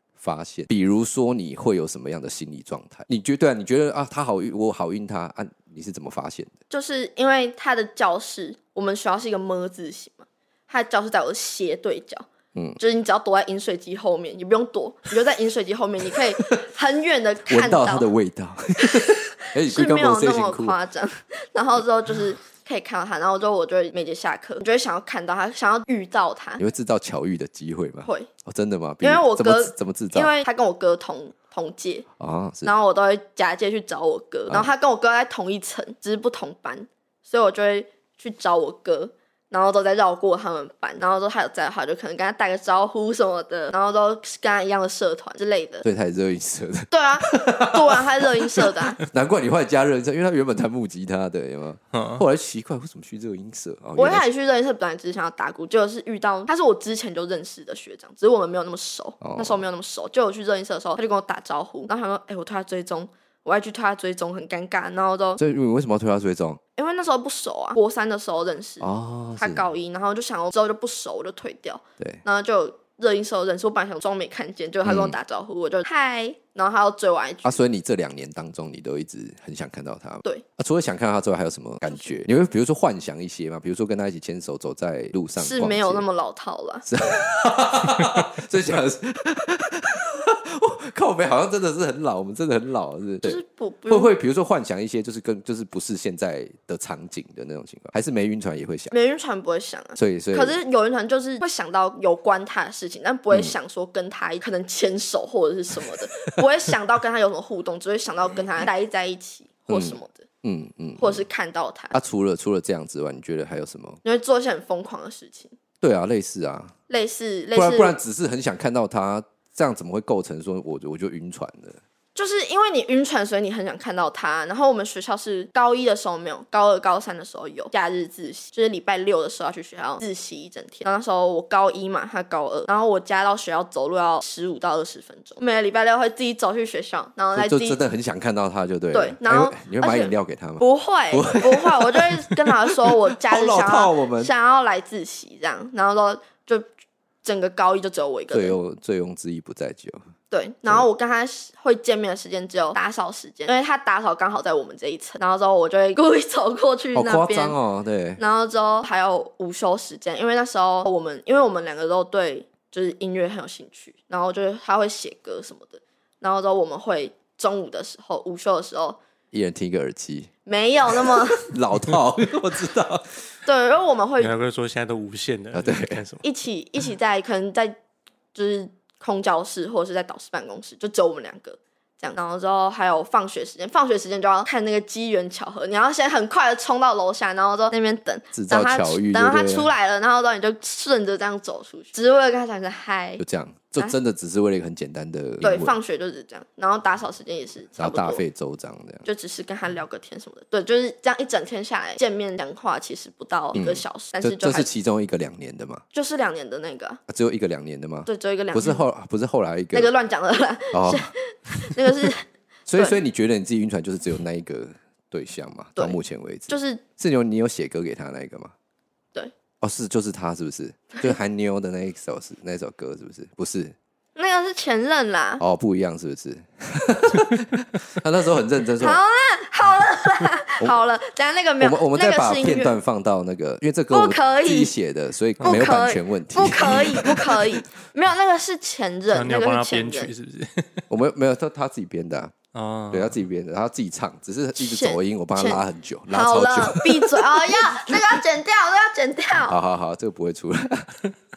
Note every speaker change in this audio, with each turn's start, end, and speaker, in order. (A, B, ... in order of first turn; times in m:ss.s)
0:00.2-0:06.6 A
0:06.7-0:12.3 B
0:12.5-0:12.8 A
0:12.8-0:18.1 B
0:17.5-0:20.8 A
0:18.8-0:26.6 B
0:26.6-0:30.3 A
0:28.0-0:28.3 B
0:29.0-0:32.1 B
0:32.2-0:32.7 A
0:32.6-0:45.9 B
0:45.8-0:54.3 A
0:46.9-0:49.0 B
0:51.9-0:52.2 C
0:54.0-1:05.4 B
0:59.2-0:59.6 A
1:05.4-1:06.6 A
1:06.8-1:17.6 B
1:08.8-1:09.6 A
1:14.8-1:15.2 A
1:17.4-1:26.0 A
1:25.4-1:26.9 B
1:26.9-1:38.9 A
1:33.2-1:34.1 B
1:38.9-1:50.3 B
1:40.0-1:40.6 A
1:49.7-1:51.2 A
1:51.0-1:52.0 B
1:51.9-1:54.0 A
1:54.0-1:55.6 B
1:55.8-1:56.7 A
1:56.9-1:58.0 B
1:57.6-2:01.8 A
2:02.2-2:17.8 B
2:17.3-2:24.3 A
2:18.9-2:26.7 B
2:27.2-2:28.6 B
2:28.3-2:30.0 A
2:30.3-2:37.6 B
2:37.0-2:38.2 A
2:38.2-2:49.0 B
2:49.3-2:50.3 A
2:50.5-2:51.5 B
2:50.8-2:53.2 A
2:53.5-2:54.3 B
2:54.2-2:56.2 C
2:55.5-2:56.0 A
2:56.2-2:57.8 B
2:58.3-3:13.2 B
3:08.3-3:09.7 A
3:13.2-3:15.8 A
3:15.4-3:18.2 B
3:17.8-3:19.0 A
3:19.0-3:24.7 B
3:23.5-3:25.8 A
3:25.9-3:27.0 B
3:27.1-3:29.9 A
3:28.1-3:28.8 B
3:29.7-3:32.2 B
3:30.7-3:31.1 A
3:31.7-3:32.1 A
3:32.7-3:38.5 A
3:35.8-3:36.8 B
3:39.6-3:43.8 A
3:44.2-3:45.4 B
3:45.4-3:49.0 A
3:48.8-3:52.8 B
3:51.6-3:57.6 A
3:53.9-3:54.7 B
3:55.4-4:00.1 B
3:59.1-4:00.8 C
4:00.9-4:02.4 A
4:02.5-4:03.2 C
4:02.9-4:08.2 A
4:04.6-4:09.6 B
4:09.4-4:11.0 A